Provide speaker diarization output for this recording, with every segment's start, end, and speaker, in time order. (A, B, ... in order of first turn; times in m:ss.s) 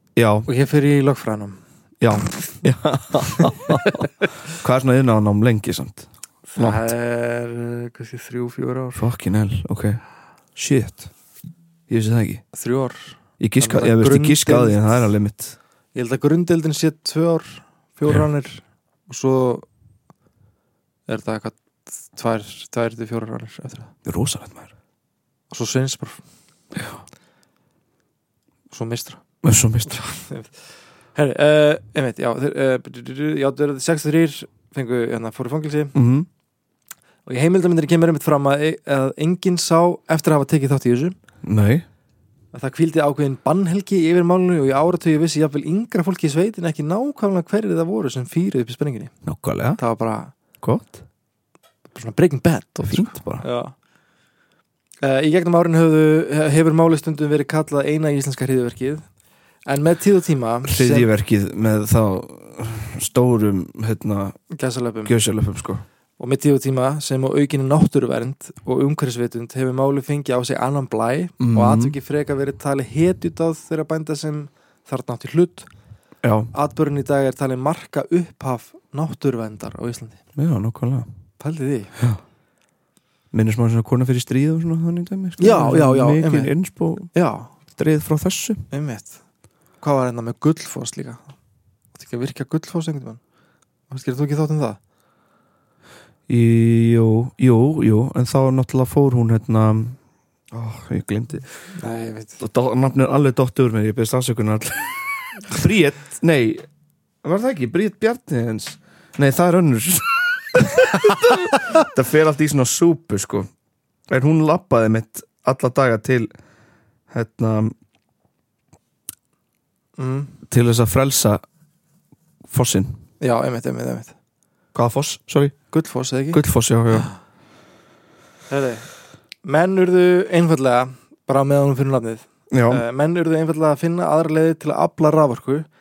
0:00.2-0:00.5 A
0:00.4-0:01.6 B
0:02.0-0:06.9 A
0:06.5-0:09.0 B
0:09.0-0:10.0 A
0:10.6-0:11.1 A
0:11.9-0:12.4 A
0:12.5-0:15.0 B
0:13.4-0:15.6 A
0:15.9-0:19.6 B
0:21.1-0:23.9 B
0:24.0-0:24.7 A
0:25.5-0:26.2 B
0:26.7-0:27.0 A
0:28.7-0:29.2 B
0:29.4-0:30.1 A
0:29.8-0:30.5 B
0:31.2-0:36.0 B
0:35.9-0:36.3 A
0:37.2-0:41.1 B
0:41.4-0:41.8 A
0:42.5-0:49.1 B
0:49.2-0:49.8 A
0:49.8-0:50.3 B
0:50.6-0:51.0 A
0:51.9-0:53.7 B
0:52.9-0:53.4 A
0:55.0-0:59.0 B
0:59.7-1:01.1 B
1:00.6-1:04.4 A
1:04.5-1:05.1 B
1:05.0-1:05.8 A
1:06.2-1:15.7 B
1:11.4-1:12.0 A
1:16.2-1:16.5 A
1:16.5-1:20.2 B
1:20.4-1:21.1 A
1:21.4-1:21.9 B
1:23.3-1:27.1 A
1:25.4-1:26.5 B
1:27.1-1:27.5 B
1:27.7-1:28.6 A
1:28.7-1:29.2 B
1:29.8-1:31.3 B
1:31.9-1:33.2 B
1:33.9-1:34.8 B
1:36.3-1:40.0 A
1:40.5-1:41.5 A
1:41.8-1:42.4 B
1:42.4-1:46.6 A
1:47.2-1:53.5 A
1:54.1-1:56.3 A
1:57.1-1:57.7 A
2:00.0-2:00.3 B
2:00.5-2:01.4 A
2:02.5-2:03.0 A
2:03.2-2:04.1 B
2:04.7-2:05.6 A
2:05.7-2:06.4 B
2:06.3-2:07.1 A
2:08.5-2:08.9 B
2:09.4-2:15.7 B
2:12.5-2:12.8 A